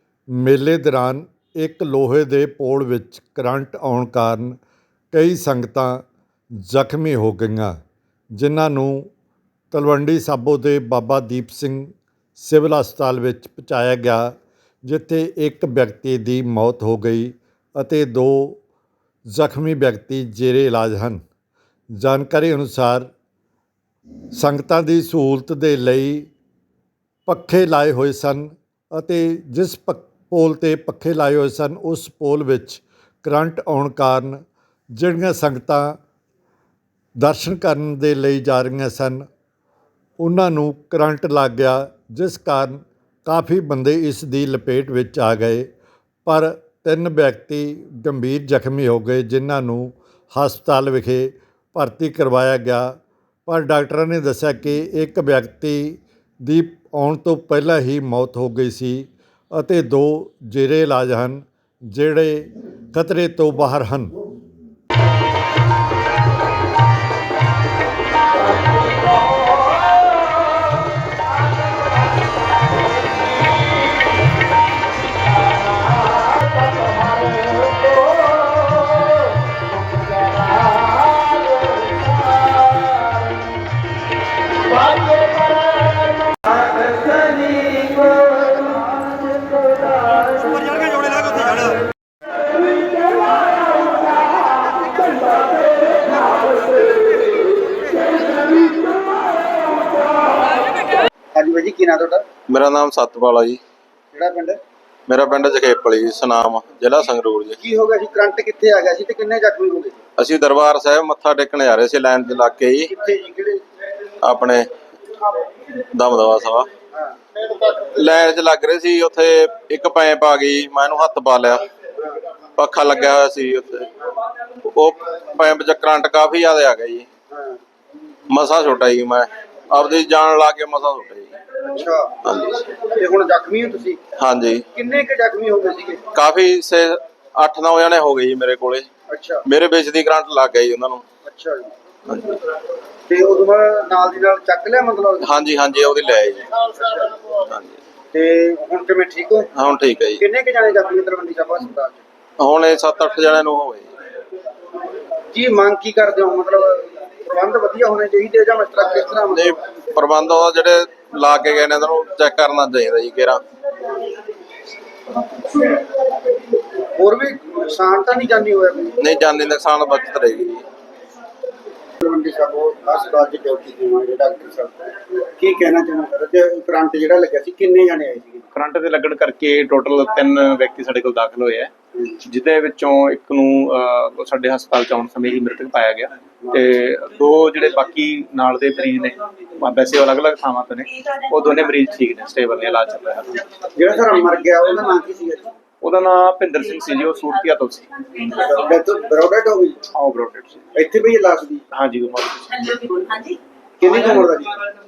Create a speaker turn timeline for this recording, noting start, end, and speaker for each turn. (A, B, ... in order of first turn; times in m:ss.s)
0:00.4-0:04.6 A
0:05.1-0:06.0 A
0:06.6-0:07.8 A
0:08.4-0:09.1 A
0:09.7-0:14.3 A
0:14.8-0:18.6 A
0:19.3-0:21.2 A
0:21.9-0:23.1 A
0:24.3-0:26.3 A
0:27.2-0:34.4 A
0:34.9-0:36.0 A
0:37.2-0:39.2 A
0:40.2-0:45.7 A
0:46.2-0:52.9 A
0:53.4-1:04.2 A
1:41.3-1:42.2 B
1:42.5-1:43.6 C
1:44.1-1:44.6 B
1:45.1-1:47.6 C
1:47.6-1:50.0 B
1:50.2-1:52.9 C
1:52.9-1:53.6 B
1:54.2-1:55.2 C
1:55.9-1:56.7 C
1:57.6-2:01.6 C
2:02.6-2:03.9 C
2:04.7-2:07.1 C
2:07.3-2:07.6 B
2:08.3-2:11.3 C
2:11.7-2:12.2 B
2:12.2-2:12.7 C
2:12.7-2:14.0 B
2:14.2-2:14.6 C
2:14.7-2:16.1 B
2:16.1-2:18.9 C
2:19.1-2:19.4 B
2:19.4-2:21.0 C
2:21.2-2:21.7 B
2:22.1-2:22.4 C
2:23.1-2:25.3 B
2:25.2-2:26.7 C
2:26.8-2:27.1 B
2:27.3-2:27.8 C
2:28.1-2:29.5 B
2:29.5-2:30.2 C
2:30.2-2:32.0 B
2:32.4-2:33.9 C
2:35.3-2:39.5 B
2:39.3-2:43.4 C
2:46.8-2:49.0 B
2:49.0-2:50.6 C
2:52.0-2:58.4 B
2:58.5-3:01.7 D
3:02.2-3:13.4 D
3:13.8-3:15.5 B
3:15.8-3:17.9 D
3:18.3-3:19.8 B
3:19.9-3:20.6 D
3:20.7-3:21.6 B
3:21.7-3:23.3 D
3:23.8-3:24.5 B